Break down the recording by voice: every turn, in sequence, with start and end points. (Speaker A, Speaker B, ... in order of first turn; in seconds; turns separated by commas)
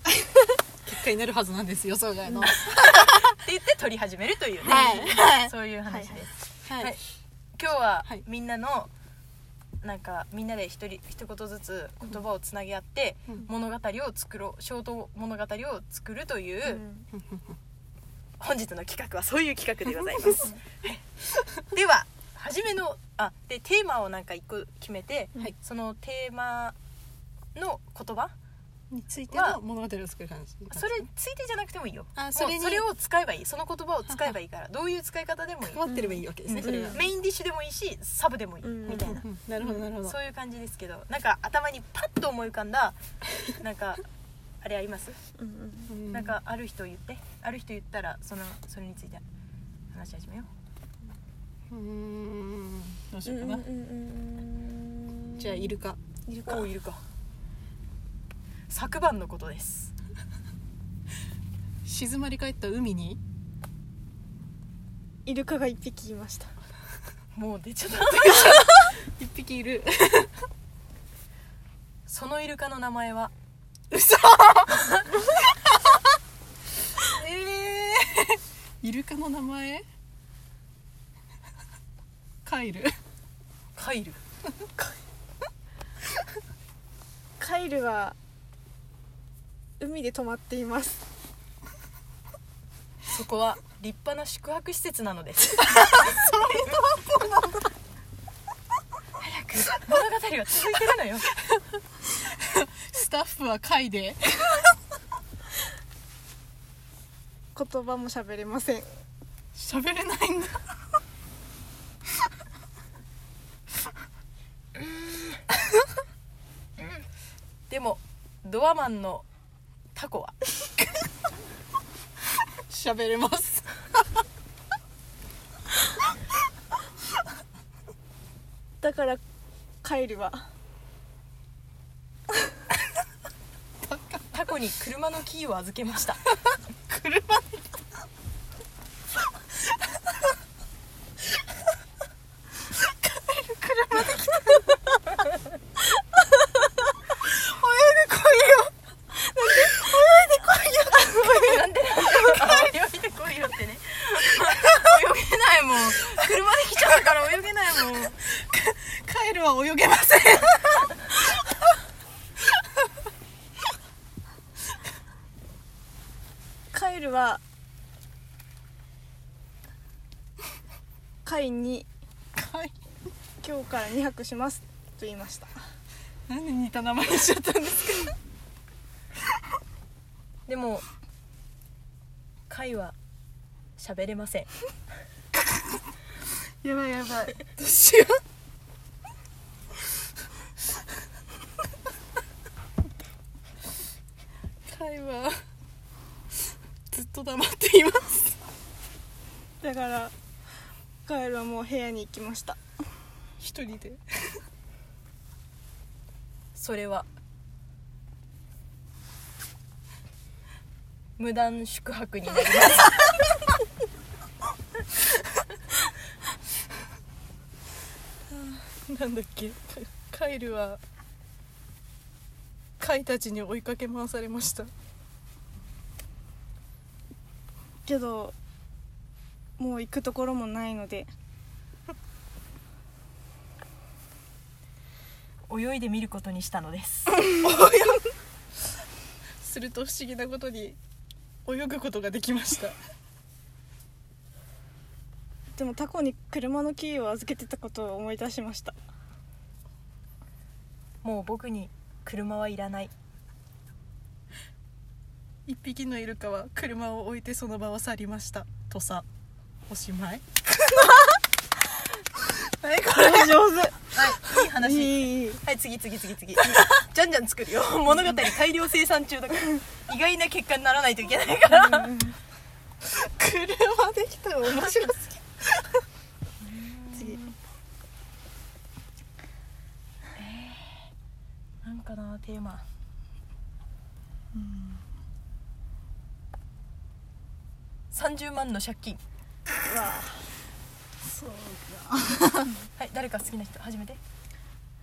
Speaker A: 0.8-3.2, Speaker B: 2.3-2.5, Speaker C: 2.8-7.0, Speaker A: 4.6-5.5, Speaker B: 5.9-6.2, Speaker C: 7.6-8.9, Speaker C: 9.8-16.8, Speaker B: 16.7-17.1, Speaker C: 18.4-21.0, Speaker C: 21.7-26.8, Speaker C: 27.5-28.3, Speaker A: 28.9-30.9, Speaker C: 29.3-29.6, Speaker C: 30.7-35.9, Speaker A: 32.2-32.8, Speaker A: 34.1-34.3, Speaker A: 35.6-37.1, Speaker B: 35.9-37.0, Speaker C: 36.4-43.0, Speaker B: 38.6-39.2, Speaker A: 38.9-40.2, Speaker C: 43.5-44.0, Speaker C: 44.6-45.2, Speaker B: 45.4-46.0, Speaker A: 45.9-46.4, Speaker C: 46.1-49.2, Speaker C: 49.9-50.5, Speaker A: 51.7-53.7, Speaker B: 53.2-56.7, Speaker A: 55.4-56.0, Speaker C: 56.5-57.0, Speaker C: 58.7-59.9, Speaker A: 61.8-63.2, Speaker B: 65.2-66.5, Speaker C: 67.3-68.7, Speaker A: 68.1-70.3, Speaker C: 72.1-73.3, Speaker A: 73.9-74.8, Speaker A: 77.0-79.8, Speaker A: 82.4-82.9, Speaker C: 83.7-84.2, Speaker B: 87.4-88.2, Speaker B: 89.8-91.0, Speaker C: 93.1-96.1, Speaker A: 95.7-97.4, Speaker C: 99.2-101.3, Speaker A: 102.3-104.6, Speaker B: 107.5-108.9, Speaker A: 109.5-110.6, Speaker C: 117.7-119.2, Speaker C: 119.9-120.4, Speaker A: 122.7-123.7, Speaker B: 128.8-129.2, Speaker B: 129.8-130.5, Speaker A: 133.8-134.3, Speaker C: 134.3-136.2, Speaker A: 136.6-137.7, Speaker A: 142.8-144.8, Speaker A: 147.2-152.7, Speaker C: 151.0-158.2, Speaker A: 158.4-160.9, Speaker B: 166.7-167.4, Speaker B: 171.2-171.9, Speaker A: 172.4-172.7, Speaker B: 173.4-175.5, Speaker A: 176.3-178.2, Speaker C: 180.5-180.9, Speaker C: 182.5-183.0, Speaker C: 183.8-184.5, Speaker B: 186.6-187.4, Speaker A: 187.6-188.2, Speaker A: 194.7-195.3, Speaker A: 196.9-198.3, Speaker B: 199.6-200.1, Speaker B: 201.1-202.6, Speaker A: 203.4-204.0, Speaker C: 206.6-207.1, Speaker C: 211.2-213.2, Speaker A: 218.3-220.8, Speaker A: 222.8-224.7, Speaker B: 227.9-228.3, Speaker B: 229.6-231.1, Speaker C: 235.5-237.2, Speaker A: 237.3-238.0, Speaker A: 239.4-240.8, Speaker A: 241.4-242.8, Speaker B: 245.6-248.8, Speaker C: 251.0-252.9, Speaker A: 255.5-259.1, Speaker A: 259.7-261.0, Speaker A: 262.2-263.6, Speaker B: 262.9-263.8, Speaker C: 263.9-271.9, Speaker B: 264.6-265.4, Speaker B: 267.9-268.2, Speaker B: 271.5-272.2, Speaker A: 272.9-275.2, Speaker C: 276.4-277.3, Speaker C: 280.2-280.9, Speaker C: 281.6-282.6, Speaker A: 284.4-284.7, Speaker C: 287.9-289.0, Speaker B: 289.6-290.3, Speaker A: 291.1-292.5, Speaker C: 292.8-294.0